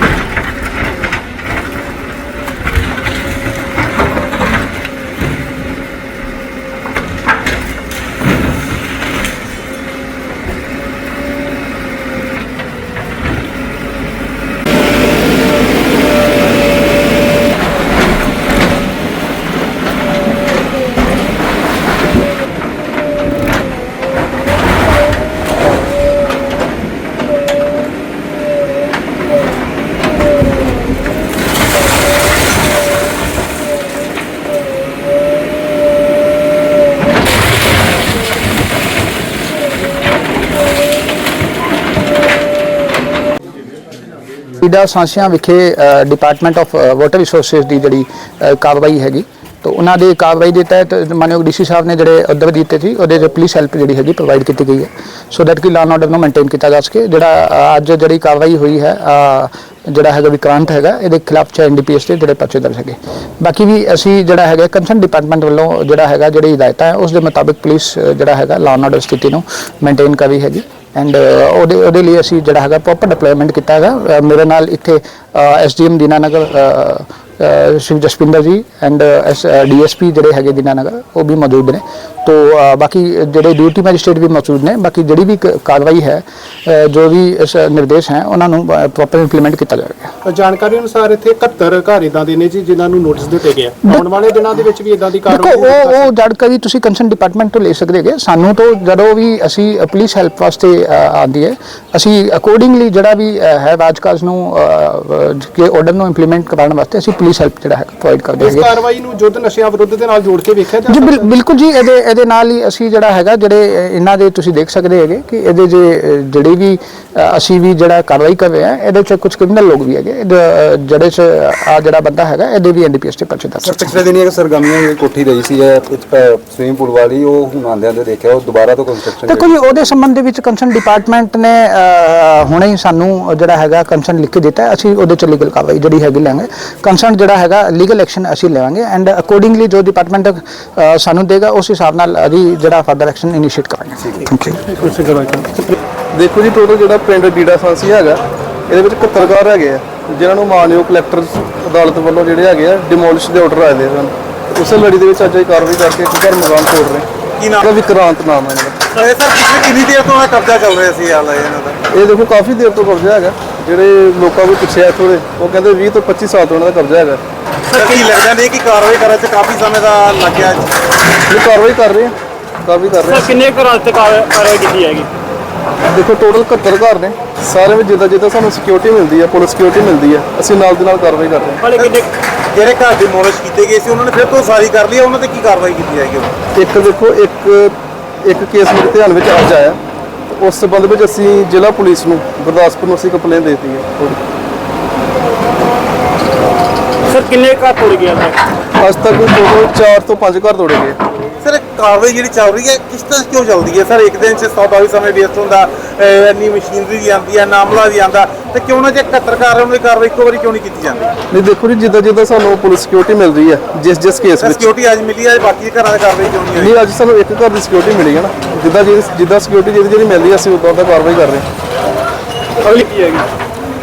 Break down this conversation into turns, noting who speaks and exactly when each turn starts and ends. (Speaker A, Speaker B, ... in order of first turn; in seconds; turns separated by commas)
Speaker A: 44.6-90.1, Speaker B: 90.2-96.0, Speaker A: 95.3-108.7, Speaker B: 108.4-111.3, Speaker A: 110.9-124.0, Speaker C: 123.6-129.5, Speaker A: 129.2-144.6, Speaker B: 144.7-145.7, Speaker D: 146.1-157.1, Speaker E: 157.4-157.7, Speaker D: 157.6-158.8, Speaker E: 158.9-161.8, Speaker D: 161.9-167.2, Speaker F: 167.7-168.1, Speaker E: 167.7-170.7, Speaker D: 171.3-173.4, Speaker F: 173.0-175.1, Speaker D: 175.9-181.7, Speaker F: 181.6-182.1, Speaker E: 182.5-186.3, Speaker D: 186.5-194.2, Speaker F: 197.1-198.4, Speaker D: 198.8-201.0, Speaker E: 201.4-211.1, Speaker D: 211.3-214.7, Speaker E: 214.4-216.8, Speaker D: 216.5-221.5, Speaker F: 222.6-223.3